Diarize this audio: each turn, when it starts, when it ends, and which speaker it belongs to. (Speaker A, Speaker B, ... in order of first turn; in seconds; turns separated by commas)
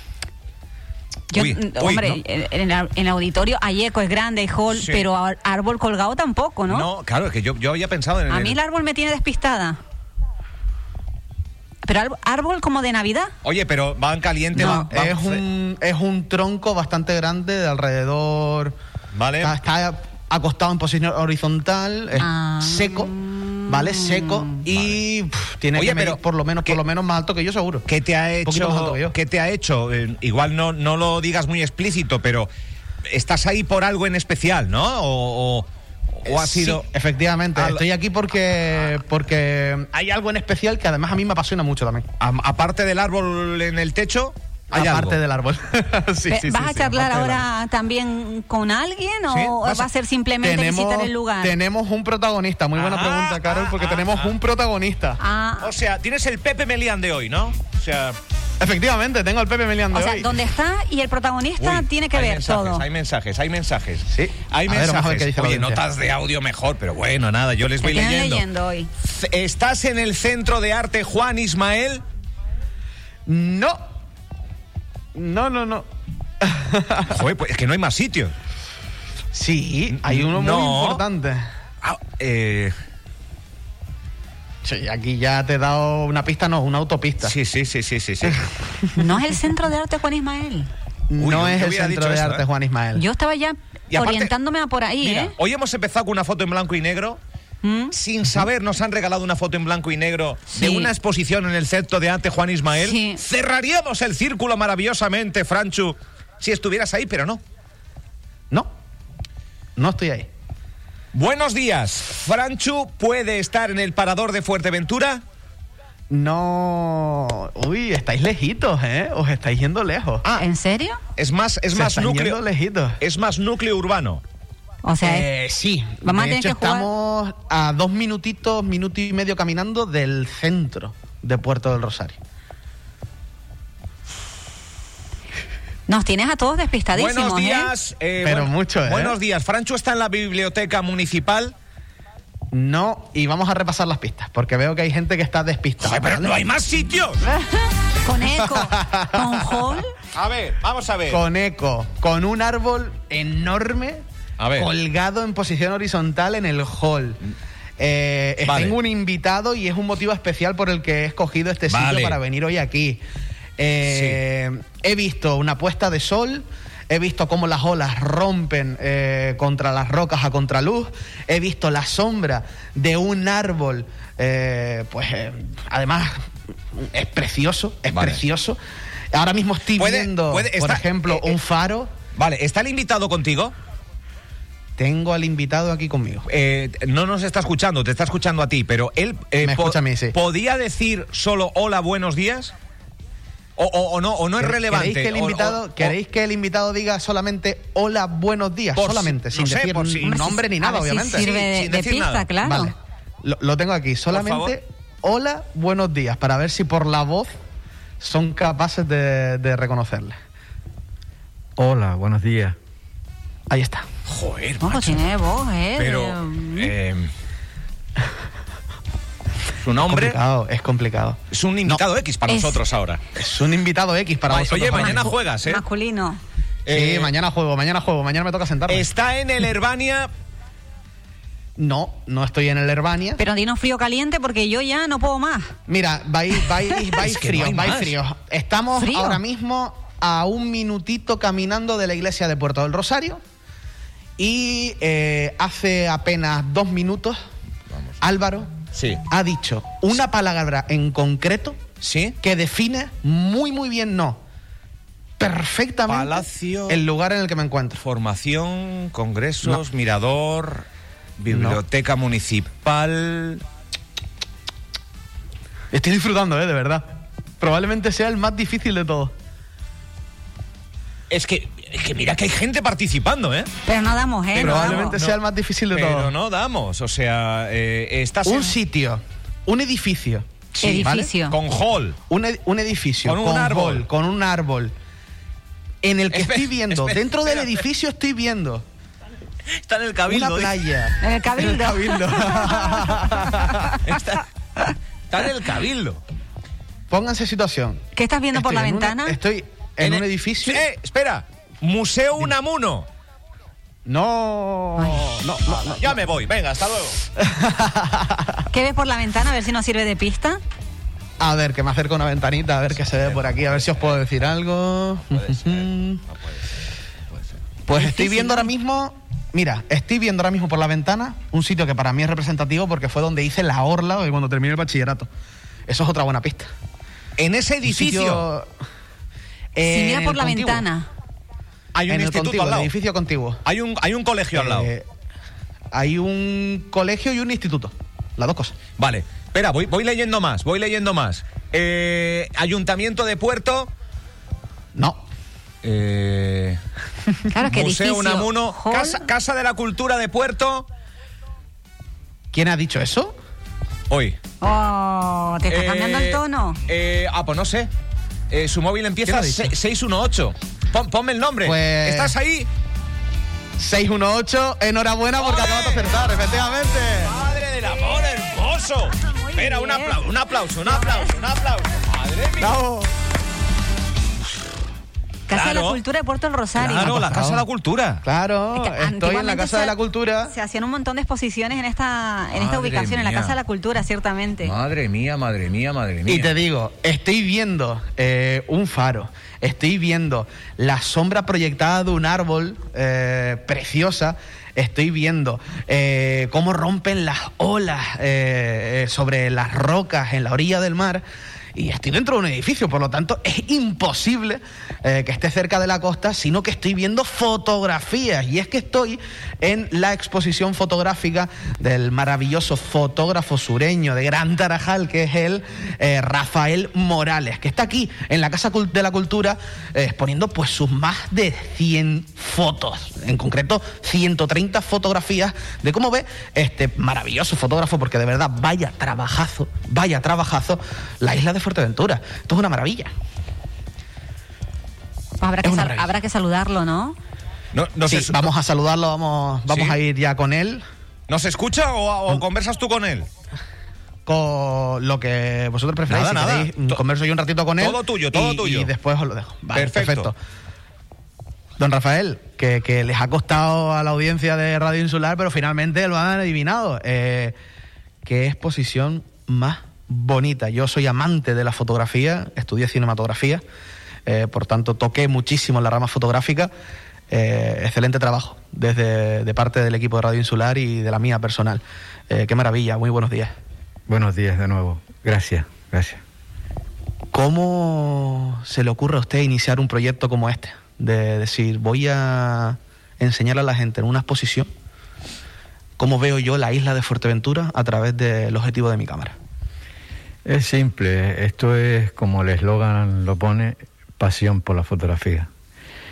Speaker A: 1.3-6.9, Speaker B: 1.3-2.2, Speaker B: 4.7-5.0, Speaker B: 6.7-8.6, Speaker A: 8.3-9.8, Speaker A: 11.8-13.3, Speaker B: 13.4-15.4, Speaker A: 14.6-14.9, Speaker C: 14.6-18.8, Speaker B: 19.1-19.6, Speaker C: 19.4-23.1, Speaker A: 22.2-24.5, Speaker C: 23.7-27.9, Speaker B: 24.6-25.0, Speaker B: 25.8-26.8, Speaker B: 27.9-32.5, Speaker C: 28.4-29.1, Speaker B: 33.0-35.7, Speaker B: 36.2-36.9, Speaker C: 36.3-42.1, Speaker B: 37.5-37.8, Speaker B: 42.2-45.2, Speaker C: 44.7-47.5, Speaker A: 46.3-51.6, Speaker B: 49.3-49.9, Speaker C: 50.4-55.2, Speaker B: 52.8-54.3, Speaker A: 55.2-55.7, Speaker B: 55.6-58.2, Speaker C: 58.6-60.4, Speaker A: 59.9-62.8, Speaker B: 61.6-68.5, Speaker C: 64.1-65.8, Speaker A: 67.8-68.9, Speaker B: 69.0-72.0, Speaker C: 73.3-73.8, Speaker C: 75.2-75.9, Speaker C: 76.4-77.2, Speaker B: 77.1-78.3, Speaker C: 79.3-81.5, Speaker B: 79.9-81.0, Speaker B: 81.8-82.8, Speaker C: 84.6-87.3, Speaker B: 87.2-88.5, Speaker C: 88.3-89.0, Speaker A: 89.0-90.7, Speaker C: 91.1-93.0, Speaker B: 91.2-92.5, Speaker A: 93.0-95.3, Speaker B: 93.9-94.3, Speaker B: 95.0-97.2, Speaker A: 97.6-97.9, Speaker B: 97.9-107.4, Speaker A: 100.5-100.9, Speaker A: 102.8-103.2, Speaker C: 109.8-110.3, Speaker B: 111.1-115.2, Speaker C: 116.1-120.2, Speaker A: 120.4-121.0, Speaker B: 121.2-122.4, Speaker C: 121.7-123.0, Speaker B: 123.0-124.2, Speaker A: 124.8-125.3, Speaker C: 125.0-132.2, Speaker A: 126.0-126.9, Speaker A: 135.9-137.7, Speaker B: 136.9-141.5, Speaker C: 138.2-139.2, Speaker C: 142.5-146.3, Speaker B: 145.8-147.3, Speaker A: 147.3-149.9, Speaker C: 148.2-149.6, Speaker B: 150.1-151.2, Speaker C: 151.1-154.0, Speaker B: 154.4-154.7, Speaker C: 154.6-157.2, Speaker C: 157.8-163.0, Speaker B: 158.4-158.8, Speaker B: 161.7-162.2, Speaker C: 163.6-178.6, Speaker B: 163.8-164.2, Speaker B: 177.9-178.2, Speaker C: 179.1-181.9, Speaker B: 179.8-181.4, Speaker B: 182.2-183.6, Speaker C: 184.8-186.3, Speaker B: 186.3-192.5, Speaker C: 189.4-190.2, Speaker B: 193.6-196.0, Speaker C: 194.4-201.3, Speaker B: 198.8-200.3, Speaker A: 200.0-202.7, Speaker B: 201.1-202.3, Speaker C: 202.4-207.3, Speaker B: 204.1-204.6, Speaker C: 208.0-210.2, Speaker D: 211.6-212.6, Speaker C: 213.5-213.9, Speaker B: 214.1-215.1, Speaker A: 214.6-216.7, Speaker B: 215.8-217.1, Speaker B: 219.6-220.2, Speaker C: 219.8-221.8, Speaker B: 221.3-223.0, Speaker A: 222.3-222.6, Speaker C: 223.2-225.1, Speaker B: 224.3-225.6, Speaker A: 224.7-226.2, Speaker B: 226.7-227.1, Speaker C: 226.7-228.9, Speaker B: 228.7-230.1, Speaker C: 231.6-233.2, Speaker A: 233.2-235.5, Speaker C: 235.7-243.2, Speaker B: 237.0-238.0, Speaker A: 238.8-239.2, Speaker C: 244.2-247.2, Speaker C: 248.0-248.5, Speaker B: 248.7-249.0, Speaker C: 249.1-251.6, Speaker B: 251.8-252.2, Speaker C: 252.2-254.2, Speaker C: 255.2-257.8, Speaker B: 255.9-256.8, Speaker B: 257.8-260.7, Speaker B: 261.2-263.4, Speaker C: 261.3-261.6, Speaker C: 265.7-269.1, Speaker B: 271.1-273.5, Speaker A: 273.6-275.0, Speaker C: 274.3-276.1, Speaker B: 274.4-275.2, Speaker B: 275.7-278.6, Speaker C: 278.2-281.1, Speaker B: 280.5-282.0, Speaker A: 280.6-281.4, Speaker C: 282.1-284.7, Speaker B: 283.1-283.9, Speaker C: 285.8-288.6, Speaker B: 286.1-287.6, Speaker B: 289.5-290.6, Speaker C: 290.1-293.8, Speaker A: 291.0-293.8, Speaker B: 293.8-296.0, Speaker C: 296.9-297.8, Speaker A: 297.9-299.2, Speaker C: 298.3-300.6, Speaker B: 299.8-302.9, Speaker C: 303.9-306.0, Speaker A: 304.8-305.1, Speaker B: 305.5-307.0, Speaker C: 307.2-308.4, Speaker A: 308.5-310.4, Speaker C: 311.2-316.0, Speaker B: 313.0-314.0, Speaker B: 315.1-316.4, Speaker C: 317.7-325.1, Speaker A: 317.7-318.5, Speaker C: 325.7-326.5, Speaker B: 327.2-328.2, Speaker C: 327.6-328.5, Speaker C: 329.6-330.6, Speaker A: 329.6-330.9, Speaker B: 331.7-332.7, Speaker C: 331.9-333.4, Speaker B: 333.4-334.7, Speaker C: 334.3-334.9, Speaker C: 335.7-338.6, Speaker B: 338.8-343.7, Speaker C: 344.8-345.0, Speaker B: 345.6-346.6, Speaker A: 347.2-349.1, Speaker B: 347.4-350.7, Speaker C: 352.3-353.2, Speaker B: 353.9-354.2, Speaker A: 354.4-356.6, Speaker B: 355.5-357.7, Speaker B: 358.3-362.5, Speaker C: 359.1-359.5, Speaker C: 361.4-362.1, Speaker C: 363.6-367.1, Speaker B: 365.2-366.1, Speaker B: 367.0-372.6, Speaker A: 369.0-370.0, Speaker A: 370.7-371.1, Speaker C: 372.4-372.9, Speaker A: 375.3-377.0, Speaker B: 375.3-375.8, Speaker B: 376.6-378.0, Speaker C: 376.7-377.4, Speaker C: 378.0-380.3, Speaker A: 378.6-379.8, Speaker A: 380.3-384.5, Speaker B: 382.3-383.4, Speaker B: 384.4-386.4, Speaker C: 386.1-401.0, Speaker C: 401.6-432.9, Speaker A: 435.2-437.0, Speaker C: 435.4-435.9, Speaker B: 437.5-438.2, Speaker C: 437.9-440.6, Speaker B: 439.5-439.8, Speaker B: 441.1-443.1, Speaker C: 444.1-450.2, Speaker B: 445.9-446.8, Speaker B: 447.6-448.7, Speaker B: 449.5-450.1, Speaker C: 451.6-457.4, Speaker C: 458.0-463.4, Speaker C: 464.1-466.5, Speaker C: 467.1-473.3, Speaker D: 473.9-476.0, Speaker C: 477.1-484.5, Speaker C: 485.8-489.1, Speaker D: 490.2-495.3